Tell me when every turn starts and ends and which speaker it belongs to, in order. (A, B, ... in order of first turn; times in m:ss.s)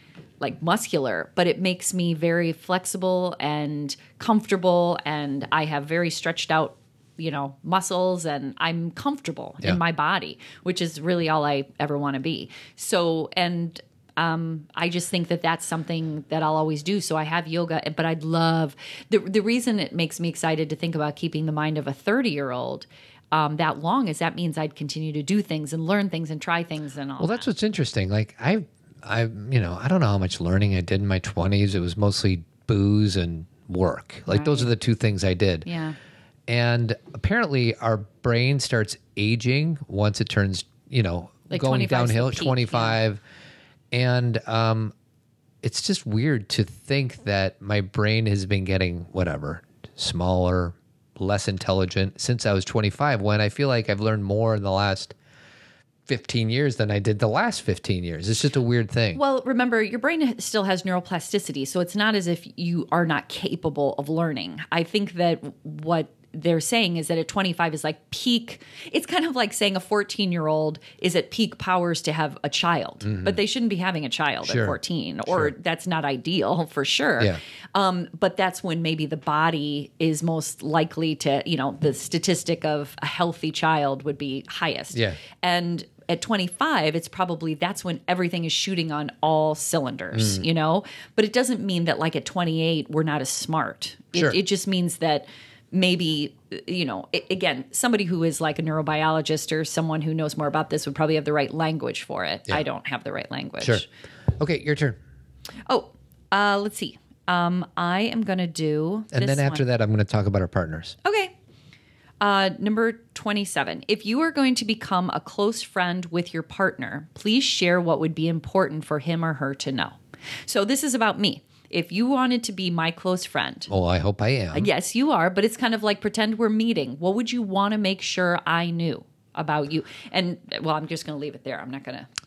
0:00.4-0:27.5 A
0:27.2-0:35.7 B
0:34.3-0:34.7 A
0:35.6-0:36.0 A
0:36.5-0:43.2 B
0:41.5-0:43.0 A
0:43.9-0:44.9 B
0:45.6-0:55.1 B
0:56.1-0:59.2 B
0:59.1-1:43.8 A
1:13.0-1:13.4 B
1:14.4-1:14.8 B
1:24.9-1:25.2 B
1:30.1-1:30.4 B
1:34.1-1:34.4 B
1:44.4-1:45.0 B
1:45.7-1:49.6 A
1:49.1-1:51.0 B
1:51.0-1:51.3 A
1:52.2-2:03.7 A
2:03.7-2:04.7 B
2:04.5-2:12.1 A